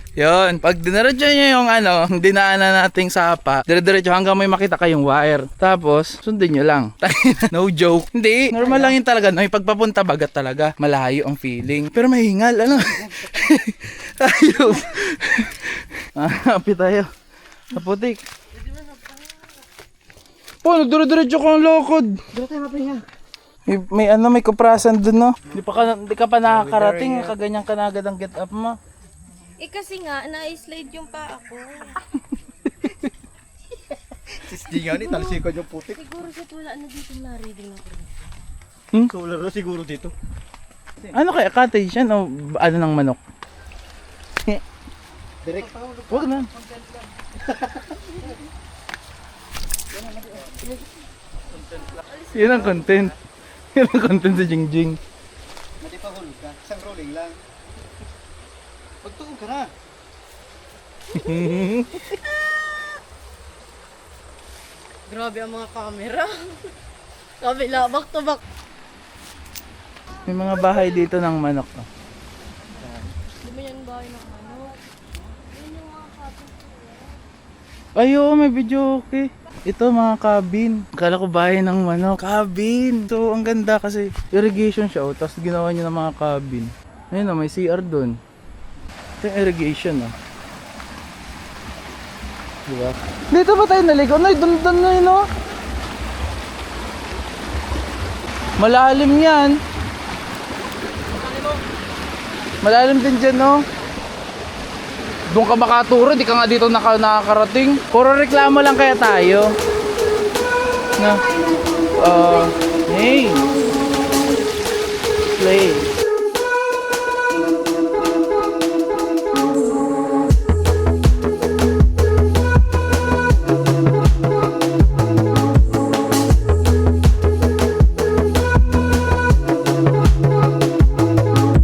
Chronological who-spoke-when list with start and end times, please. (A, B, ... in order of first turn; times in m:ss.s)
0:00.2-0:17.1 A
0:08.5-0:08.9 B
0:12.9-0:13.3 B
0:17.7-0:18.2 A
0:20.6-0:22.2 A
0:22.3-0:23.0 B
0:23.7-0:28.8 A
0:26.6-0:27.2 B
0:29.6-0:32.0 C
0:34.3-0:36.0 B
0:34.5-0:38.1 C
0:39.1-0:40.1 B
0:41.1-0:43.2 A
0:45.4-0:48.0 B
0:46.1-0:46.5 A
0:49.9-0:50.7 B
0:52.3-0:53.2 A
0:53.7-0:55.0 A
0:55.8-0:57.4 B
0:59.0-0:59.7 B
1:01.1-1:02.1 A
1:05.1-1:06.7 C
1:07.4-1:08.4 C
1:10.2-1:11.8 A
1:13.2-1:14.8 C
1:15.5-1:17.2 C
1:18.0-1:28.2 A
1:29.2-1:30.1 A
1:32.7-1:35.3 A
1:38.6-1:39.6 A
1:42.6-1:43.6 A
1:45.3-1:49.5 A
1:51.0-1:51.2 A
1:52.0-1:53.4 A
1:55.3-1:55.9 A